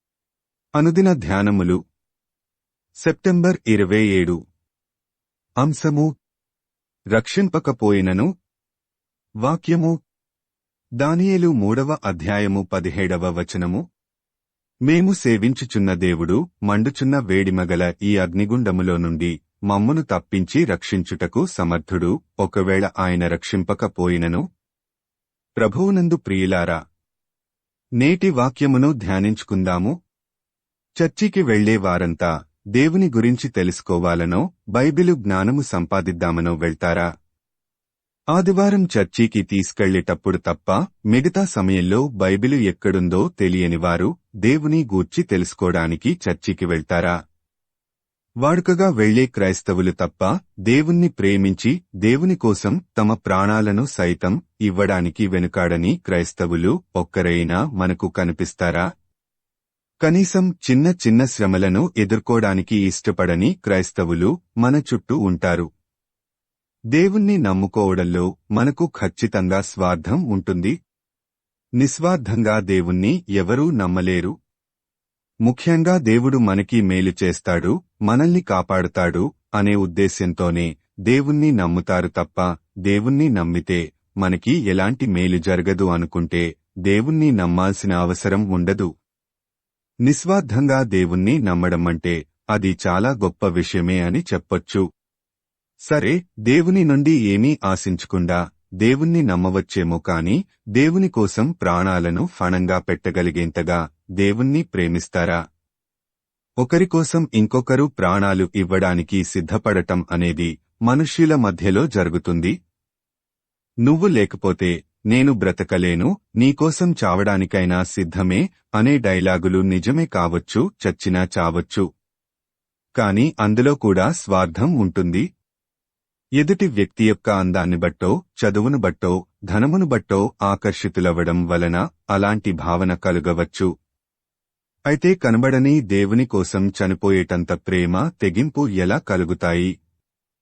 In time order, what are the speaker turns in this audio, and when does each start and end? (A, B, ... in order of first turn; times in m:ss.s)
0:00.8-0:01.8 A
0:03.0-0:04.4 A
0:05.6-0:06.1 A
0:07.2-0:08.3 A
0:09.4-0:10.0 A
0:11.0-0:13.8 A
0:14.9-0:24.4 A
0:25.6-0:26.8 A
0:28.0-0:29.9 A
0:31.0-0:37.1 A
0:38.3-0:47.2 A
0:48.4-0:58.8 A
1:00.0-1:05.7 A
1:06.9-1:10.7 A
1:11.8-1:14.3 A
1:15.4-1:28.9 A
1:30.0-1:34.8 A
1:35.9-1:45.4 A
1:46.6-1:52.5 A
1:53.8-2:01.8 A
2:03.0-2:05.2 A
2:06.4-2:13.7 A
2:14.9-2:19.7 A